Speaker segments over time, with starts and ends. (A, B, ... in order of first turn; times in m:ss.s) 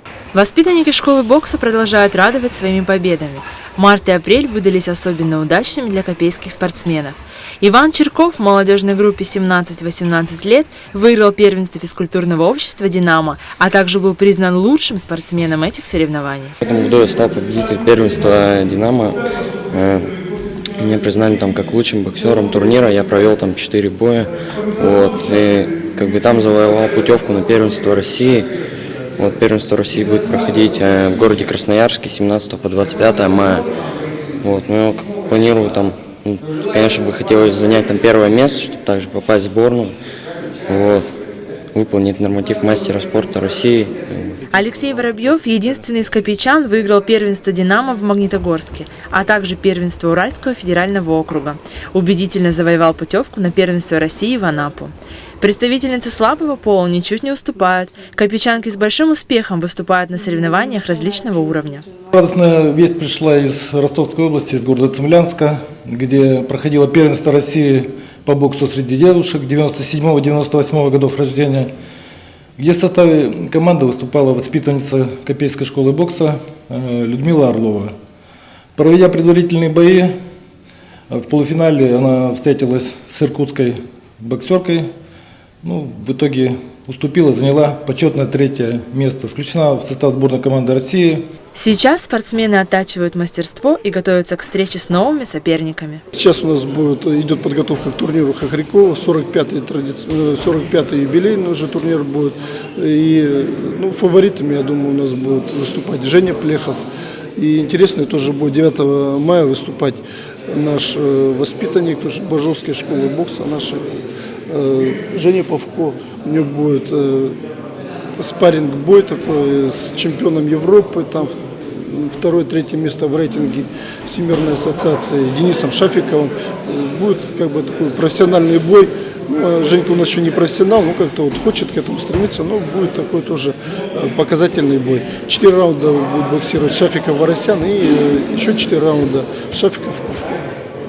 0:00.3-0:16.6 A
0:16.6-0:19.2 B
0:19.7-0:20.2 B
0:20.8-0:28.5 B
0:29.2-0:33.7 B
0:34.4-0:40.0 B
0:40.7-0:41.1 B
0:41.7-0:44.4 B
0:44.5-1:01.9 A
1:02.1-1:11.7 C
1:12.6-1:17.9 C
1:18.8-1:20.1 C
1:21.1-1:24.9 C
1:25.6-1:31.2 C
1:31.5-1:36.0 A
1:36.1-1:46.8 D
1:47.4-1:53.8 D
1:54.5-1:57.4 D
1:58.2-2:20.5 D